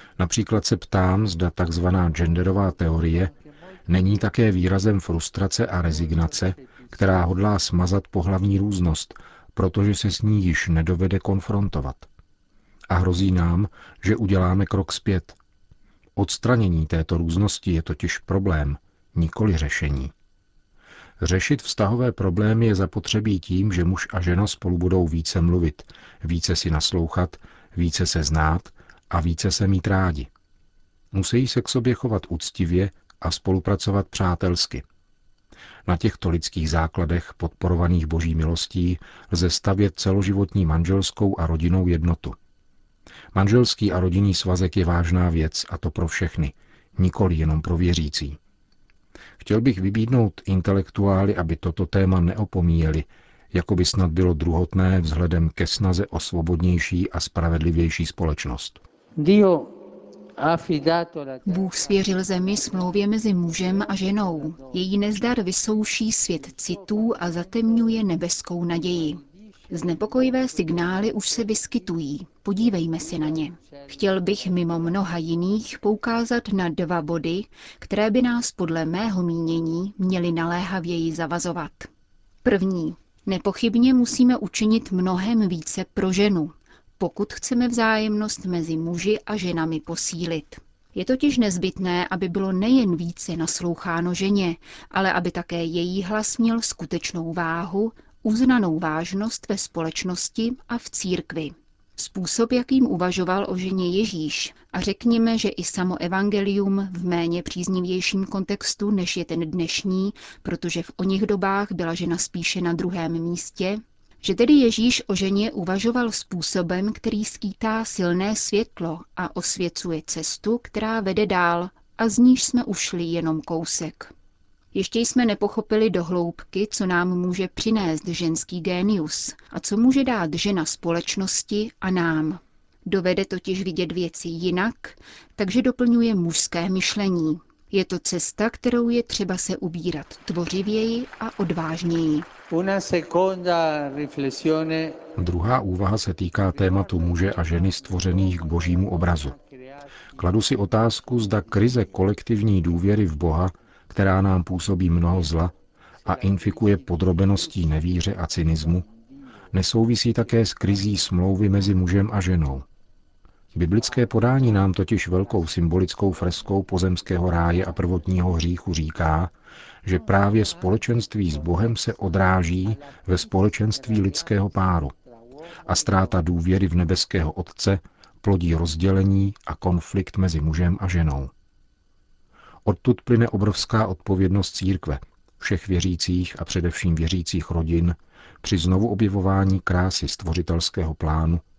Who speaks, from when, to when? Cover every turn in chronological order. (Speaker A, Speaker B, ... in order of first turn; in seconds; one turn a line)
Speaker A: 0.2-3.3
Speaker B: 2.8-3.8
Speaker A: 3.9-12.1
Speaker B: 5.9-6.9
Speaker A: 12.9-15.4
Speaker A: 16.2-20.1
Speaker A: 21.2-30.3
Speaker A: 31.1-34.8
Speaker A: 35.9-42.4
Speaker A: 43.3-48.4
Speaker A: 49.4-58.8
Speaker B: 59.2-59.9
Speaker B: 60.4-63.0
Speaker C: 61.5-81.9
Speaker B: 63.5-64.8
Speaker B: 66.3-68.0
Speaker B: 69.0-71.6
Speaker B: 72.8-75.0
Speaker C: 82.4-124.1
Speaker C: 124.7-142.3
Speaker B: 142.5-145.0
Speaker A: 145.2-149.4
Speaker B: 146.6-150.6
Speaker A: 150.2-155.5
Speaker A: 156.1-158.8
Speaker B: 156.1-157.4
Speaker A: 159.5-162.7
Speaker A: 163.5-169.3
Speaker A: 169.8-174.9
Speaker B: 172.9-175.7
Speaker A: 175.6-181.3
Speaker A: 182.7-191.4